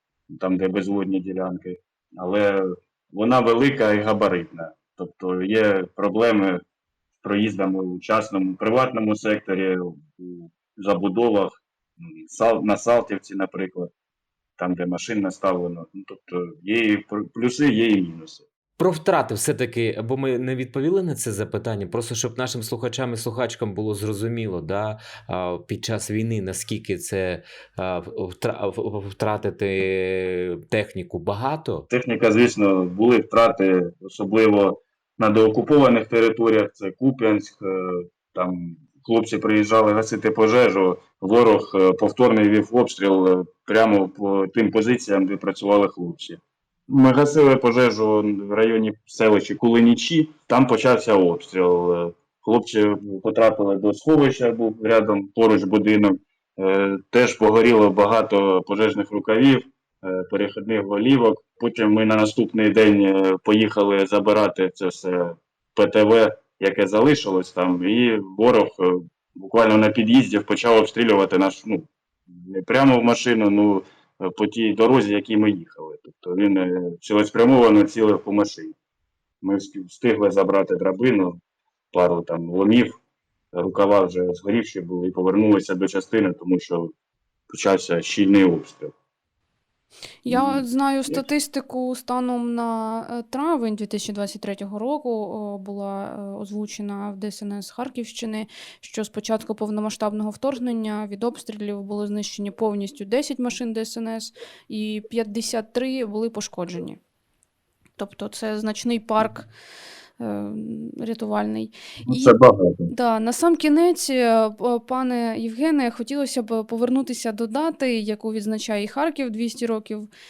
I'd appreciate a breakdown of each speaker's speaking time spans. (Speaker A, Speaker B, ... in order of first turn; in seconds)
Speaker A: 0.3-6.6, 7.2-13.9, 14.6-18.5, 31.9-78.8, 79.4-81.4, 81.9-83.0, 83.5-86.9, 87.5-88.9, 90.3-91.2, 112.1-112.9
Speaker B: 18.8-31.9
Speaker C: 90.2-107.0, 108.0-109.5, 110.2-112.4, 112.9-120.1